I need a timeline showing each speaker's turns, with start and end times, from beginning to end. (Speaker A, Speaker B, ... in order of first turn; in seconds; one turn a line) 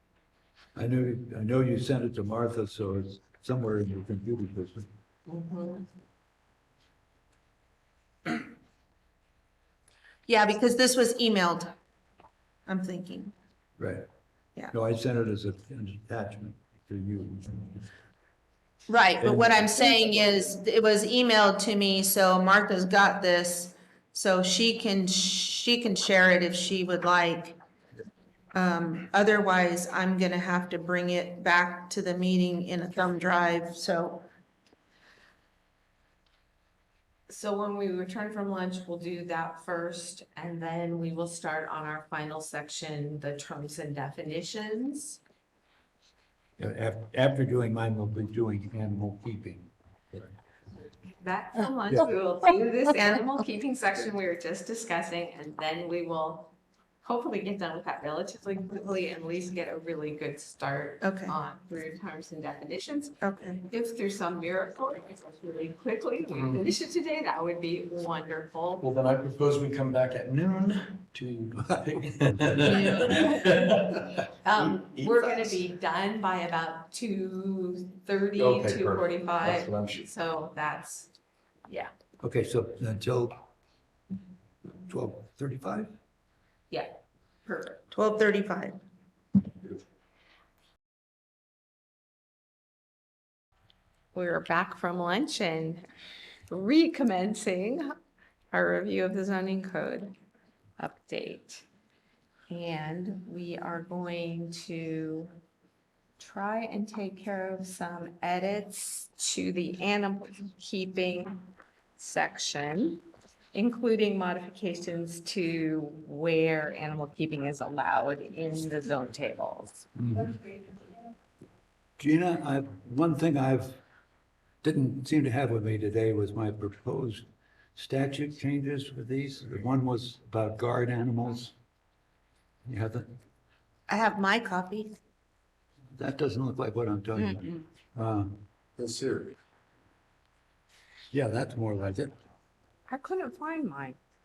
Speaker A: 0.8-4.9
Speaker B: 5.3-5.8
Speaker C: 10.3-11.7
Speaker C: 12.7-13.3
Speaker A: 13.8-14.1
Speaker A: 14.7-17.7
Speaker C: 18.9-27.6
Speaker A: 19.2-19.9
Speaker C: 28.5-34.3
Speaker B: 37.3-45.2
Speaker A: 46.6-50.3
Speaker B: 51.2-63.1
Speaker C: 53.0-53.2
Speaker C: 61.0-61.4
Speaker C: 63.2-63.7
Speaker B: 63.7-68.8
Speaker D: 68.8-73.8
Speaker A: 72.4-72.9
Speaker B: 72.7-73.6
Speaker B: 74.4-81.1
Speaker D: 75.0-75.5
Speaker D: 78.4-80.1
Speaker A: 82.2-83.4
Speaker A: 84.9-85.9
Speaker B: 86.7-87.8
Speaker C: 87.9-88.8
Speaker B: 94.1-95.9
Speaker B: 96.5-97.9
Speaker B: 98.5-100.2
Speaker B: 100.8-101.7
Speaker B: 102.5-105.3
Speaker B: 106.2-119.8
Speaker A: 122.0-123.8
Speaker A: 124.6-127.2
Speaker A: 127.8-131.6
Speaker A: 132.7-133.1
Speaker C: 133.9-135.0
Speaker A: 136.0-138.4
Speaker D: 138.8-139.4
Speaker A: 141.1-142.2
Speaker B: 142.9-144.0